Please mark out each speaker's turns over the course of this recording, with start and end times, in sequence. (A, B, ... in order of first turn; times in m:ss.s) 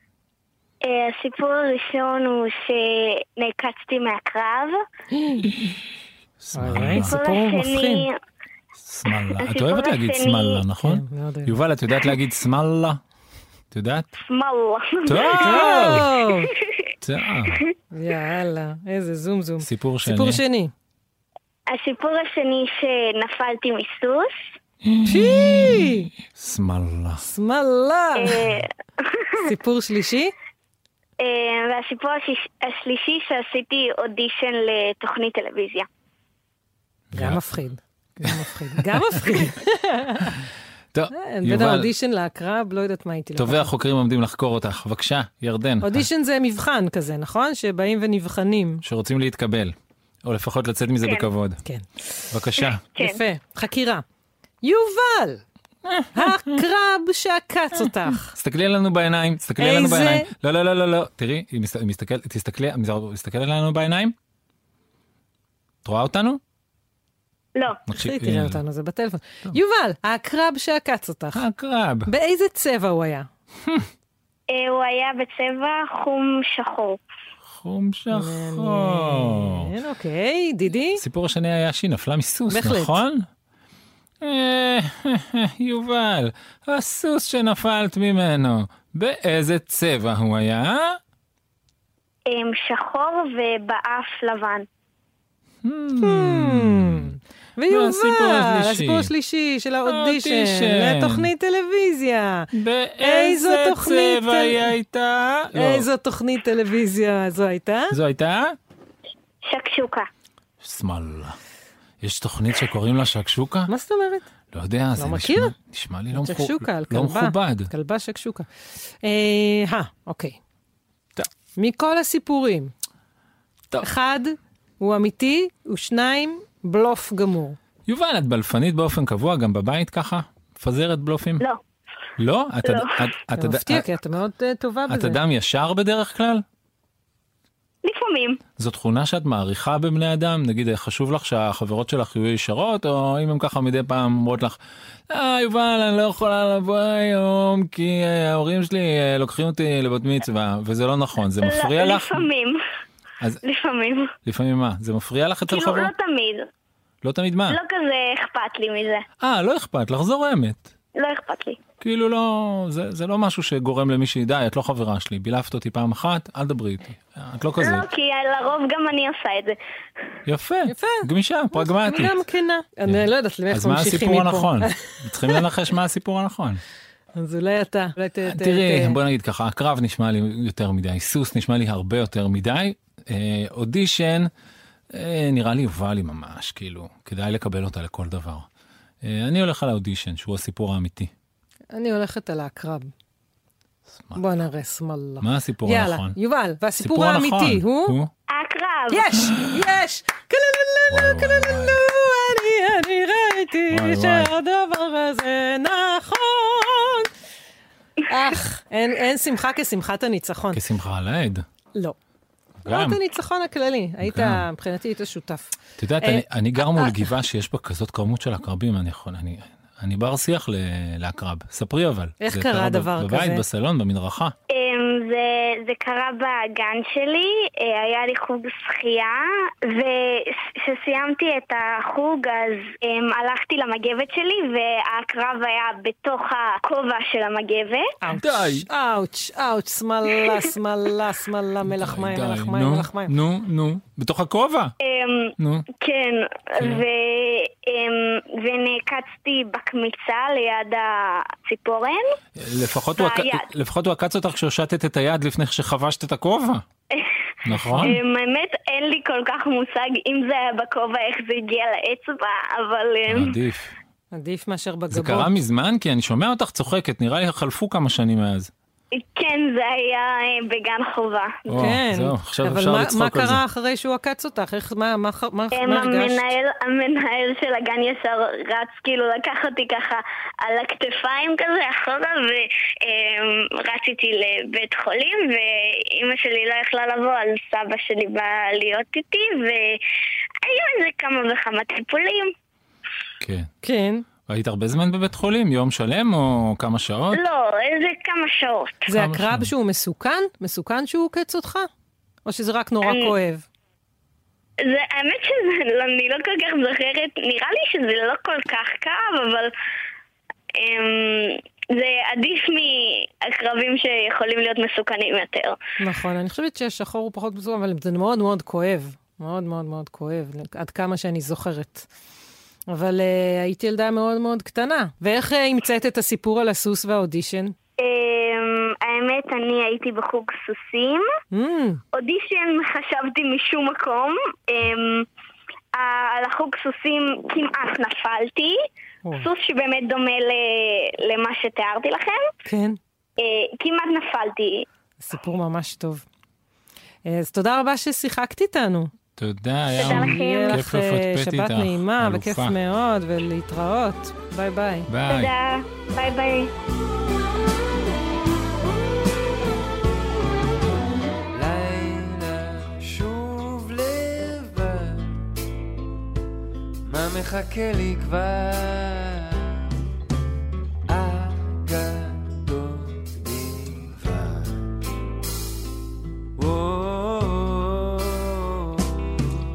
0:00.8-0:04.8 A
0:05.1-0:05.7 B
0:06.4-0:07.2 C
0:06.6-0:08.1 B
0:07.0-0:08.1 A
0:08.8-0:13.0 C
0:09.4-0:10.6 A
0:10.8-0:11.5 B
0:13.7-0:14.1 C
0:14.2-0:15.7 A
0:15.1-0:16.1 C
0:15.3-0:16.5 B
0:17.0-0:17.6 C
0:17.9-0:20.7 B
0:19.6-0:20.4 C
0:21.7-0:24.4 A
0:24.8-0:27.2 C
0:25.0-0:26.1 B
0:27.2-0:28.6 B
0:28.2-0:29.3 A
0:29.4-0:30.3 B
0:31.2-0:35.9 A
0:37.1-0:37.6 C
0:37.1-0:40.4 B
0:38.2-0:39.2 C
0:40.9-0:41.9 C
0:41.1-0:43.7 B
0:43.4-0:46.0 C
0:45.8-0:48.8 B
0:48.8-0:51.6 C
0:51.0-0:51.3 A
0:51.6-0:52.3 B
0:52.3-0:52.8 C
0:53.0-0:54.0 B
0:54.6-0:55.4 B
0:55.9-0:56.6 C
0:56.1-0:58.3 B
0:58.3-1:04.2 C
0:59.6-1:00.3 B
1:05.8-1:06.4 C
1:07.6-1:07.8 A
1:07.9-1:08.6 C
1:07.9-1:11.4 B
1:11.3-1:12.1 C
1:12.1-1:13.3 B
1:14.5-1:17.0 A
1:17.5-1:19.7 C
1:18.1-1:21.0 B
1:21.0-1:23.3 C
1:22.5-1:23.0 B
1:24.2-1:31.0 C
1:32.3-1:34.7 A
1:35.6-1:37.2 C
1:36.0-1:42.5 B
1:37.7-1:39.1 C
1:39.8-1:41.3 C
1:42.5-1:45.9 C
1:43.0-1:44.7 B
1:45.5-1:48.0 B
1:47.9-1:48.6 C
1:49.4-1:50.1 A
1:50.6-1:51.4 C
1:52.0-1:53.7 C
1:53.7-1:54.2 B
1:54.5-1:57.7 C
1:55.0-1:55.5 B
1:56.1-1:58.5 B
1:59.0-2:00.4 B
2:01.6-2:02.7 B
2:03.8-2:07.6 B
2:07.9-2:11.4 C
2:12.2-2:13.9 C
2:12.6-2:13.0 A
2:13.4-2:15.2 B
2:14.9-2:16.4 C
2:17.8-2:18.4 A
2:18.6-2:24.6 C
2:25.1-2:32.3 C
2:31.4-2:32.6 A
2:33.4-2:34.1 A
2:34.2-2:35.9 C
2:35.5-2:36.5 A
2:37.0-2:37.6 C
2:37.5-2:39.0 A
2:39.2-2:40.7 C
2:41.0-2:41.6 A
2:41.8-2:47.9 C
2:47.6-2:49.6 A
2:50.3-2:52.2 C
2:50.7-2:51.0 B
2:51.6-2:55.4 B
2:52.9-2:56.6 C
2:57.2-2:59.0 B
2:58.3-3:04.3 C
3:04.9-3:08.5 C
3:09.0-3:11.1 C
3:11.7-3:12.9 B
3:14.0-3:14.2 C
3:14.2-3:18.0 B
3:15.2-3:16.2 C
3:16.8-3:18.1 C
3:18.3-3:19.1 A
3:18.9-3:27.1 B
3:20.9-3:21.8 C
3:23.7-3:24.3 C
3:28.1-3:30.6 B
3:30.5-3:31.4 C
3:32.6-3:33.0 C
3:32.7-3:37.1 B
3:34.0-3:34.5 C
3:35.8-3:44.4 C
3:42.2-3:43.4 B
3:44.5-3:57.9 A
3:58.0-4:03.1 B
3:58.1-3:58.7 C
4:01.6-4:04.7 C
4:04.8-4:12.0 A
4:05.4-4:05.7 C
4:06.6-4:06.8 C
4:12.4-4:16.6 C
4:13.0-4:13.4 A
4:17.5-4:18.0 C
4:17.5-4:18.0 B
4:17.8-4:23.4 A
4:23.1-4:23.8 C
4:24.1-4:25.4 B
4:24.9-4:28.5 C
4:28.9-4:31.5 A
4:31.5-4:33.4 C
4:31.5-4:36.3 B
4:35.5-4:49.8 A
4:50.4-4:52.3 A
4:53.2-4:53.5 C
4:53.6-4:54.0 B
4:54.3-4:57.2 C
4:57.1-4:58.9 A
4:58.9-5:01.7 B
4:58.9-4:59.5 C
5:02.2-5:03.5 B
5:02.8-5:03.1 A
5:04.6-5:09.5 A
5:10.6-5:15.6 A
5:15.8-5:21.9 B
5:22.7-5:27.5 B
5:27.8-5:31.0 A
5:31.3-5:31.8 B
5:31.9-5:35.1 A
5:35.8-5:38.6 A
5:39.2-5:42.3 A
5:42.4-5:42.8 B
5:43.2-5:44.7 A
5:45.0-5:46.1 B
5:47.1-5:48.9 B
5:49.2-5:52.6 C
5:49.7-5:50.6 A
5:49.8-5:54.9 B
5:54.9-5:55.3 C
5:55.1-5:56.5 A
6:01.3-6:05.2 D
6:06.9-6:09.6 D
6:10.9-6:14.7 D
6:16.4-6:19.2 D